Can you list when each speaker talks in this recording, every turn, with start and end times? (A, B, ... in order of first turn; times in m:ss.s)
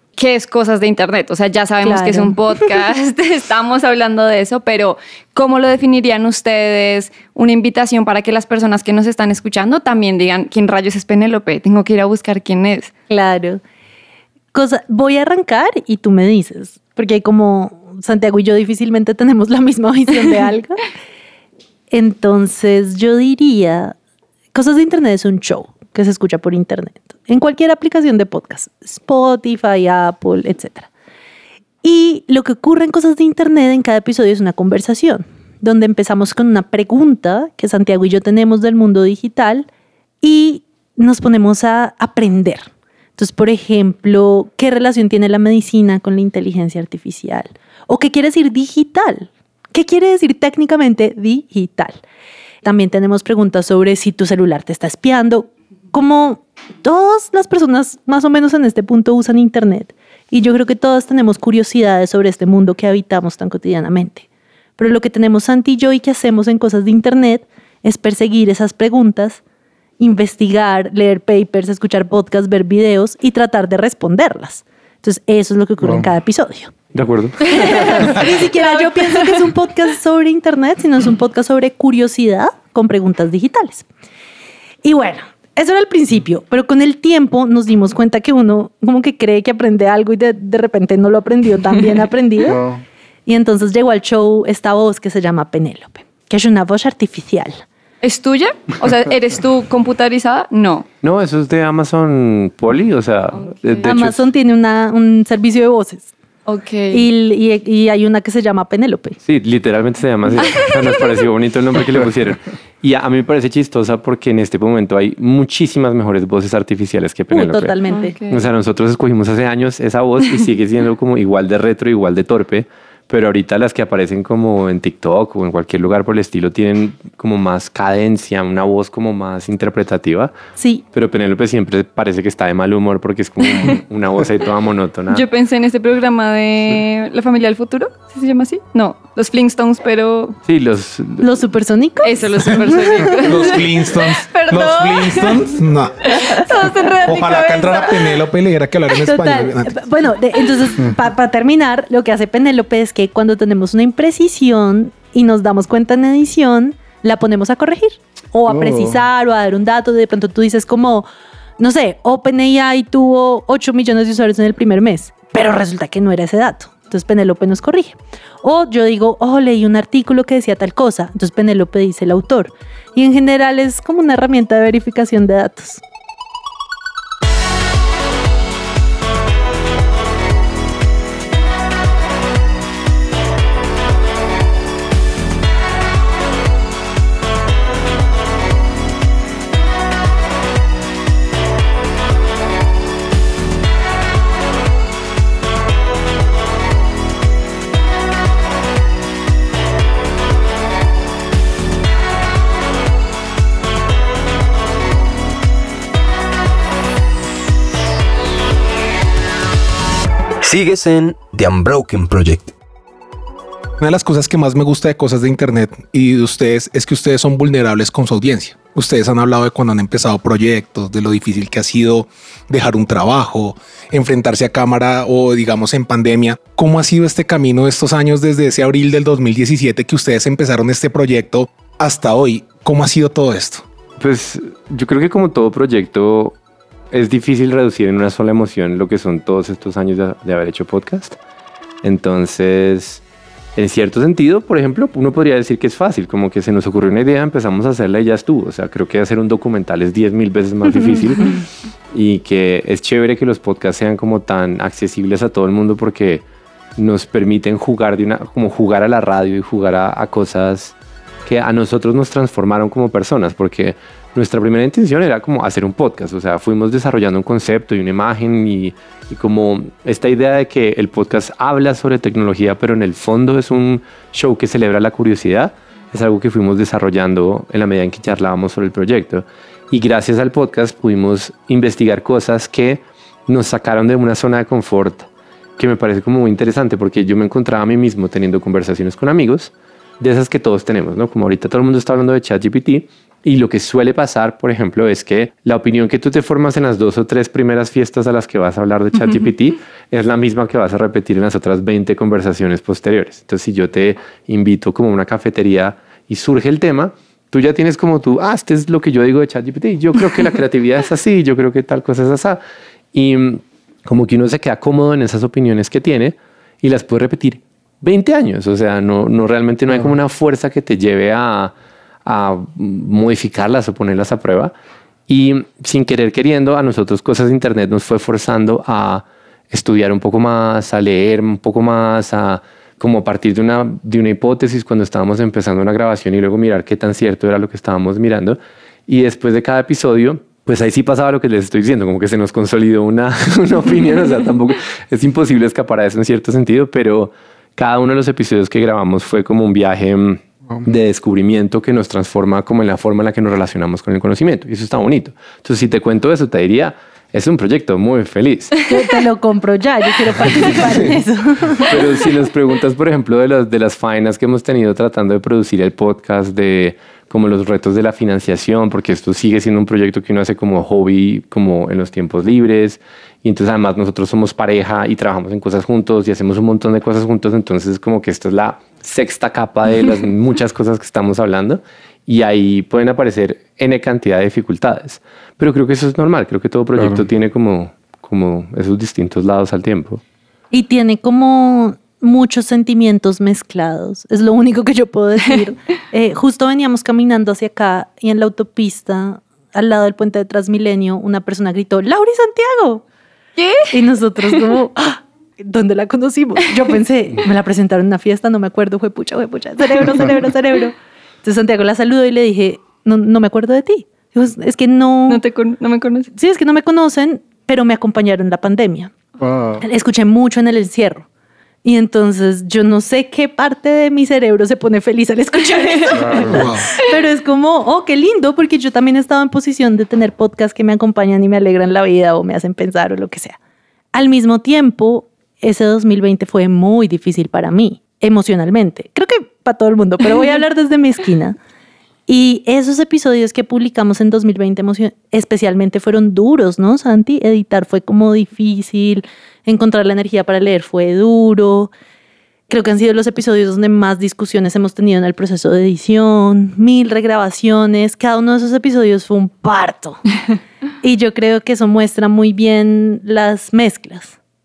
0:00.2-0:12.9 A
0:01.8-0:02.4 B
0:13.1-0:13.6 B
0:14.5-0:20.8 B
0:21.9-0:24.0 B
0:24.5-0:30.9 B
0:31.8-0:39.7 B
0:40.2-0:52.0 B
0:52.6-1:04.3 B
1:04.8-1:09.4 B
1:10.0-1:16.7 B
1:15.8-1:16.1 C
1:16.9-1:18.2 D
1:17.5-1:23.8 B
1:17.6-1:19.3 A
1:24.8-1:32.6 B
1:32.5-1:32.8 C
1:33.3-1:37.6 B
1:38.0-1:40.9 A
1:41.0-1:44.2 D
1:43.3-1:43.9 A
1:43.8-1:46.1 B
1:46.5-1:47.0 A
1:46.9-1:49.2 B
1:49.3-1:57.7 D
1:50.4-1:50.8 A
1:57.3-1:58.2 B
1:57.9-1:58.4 A
1:58.3-2:10.3 D
2:10.6-2:10.8 B
2:10.9-2:15.2 D
2:15.1-2:20.4 A
2:20.5-2:21.3 D
2:21.2-2:23.2 B
2:22.0-2:25.5 A
2:23.2-2:26.1 E
2:26.1-2:28.2 A
2:27.0-2:29.8 E
2:29.0-2:41.1 B
2:38.5-2:39.0 C
2:41.6-2:55.8 B
3:30.4-3:32.5 F
3:33.8-3:53.6 E
3:54.0-3:56.4 D
3:56.9-4:01.2 D
4:01.8-4:03.0 D
4:03.6-4:11.4 D
4:11.9-4:16.2 D
4:16.8-5:12.4 D
5:12.9-5:21.5 D
5:22.0-5:24.5 D
5:25.1-5:58.6 D
5:58.7-6:01.7 B
6:01.6-6:30.0 D
6:26.8-6:27.0 C
6:30.5-6:42.8 B
6:43.4-6:43.7 A
6:43.7-6:55.2 B
6:55.1-6:56.1 A
6:56.2-6:58.9 B
6:59.2-6:59.6 C
6:59.6-7:01.1 B
7:01.6-7:13.4 B
7:05.9-7:06.5 C
7:06.3-7:06.7 E
7:13.9-7:21.4 B
7:22.1-7:31.7 B
7:32.5-7:40.0 B
7:40.8-7:44.2 B